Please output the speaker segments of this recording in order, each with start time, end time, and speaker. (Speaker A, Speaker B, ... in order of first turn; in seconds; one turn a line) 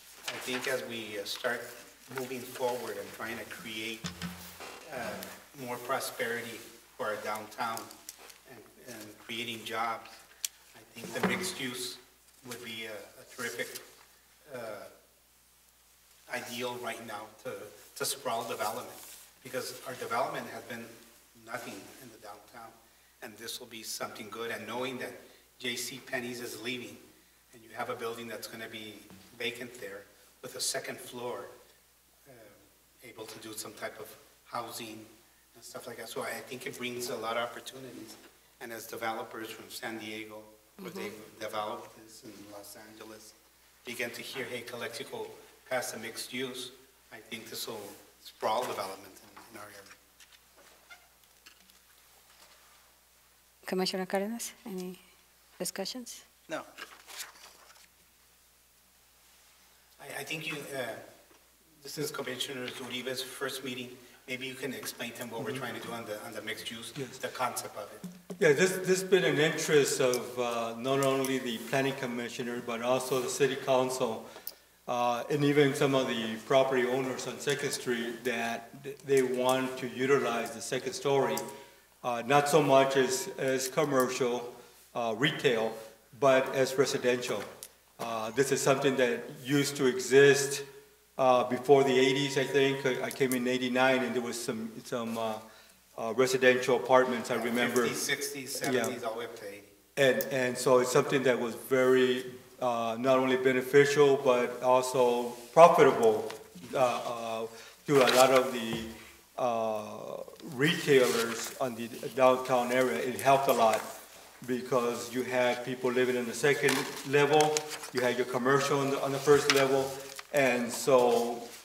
Speaker A: 0.2-4.1
Speaker A: 4.8-7.9
Speaker A: 8.4-10.2
Speaker A: 10.7-13.8
Speaker A: 14.4-14.9
Speaker A: 16.3-31.5
Speaker A: 32.2-49.9
Speaker B: 40.8-41.1
Speaker B: 53.6-55.0
Speaker B: 55.6-56.2
Speaker A: 60.0-61.1
Speaker A: 61.8-68.0
Speaker C: 68.4-74.3
Speaker C: 74.9-81.4
Speaker C: 82.0-95.4
Speaker C: 96.0-98.0
Speaker A: 97.3-99.7
Speaker C: 98.6-99.0
Speaker C: 100.0-113.9
Speaker C: 114.4-121.5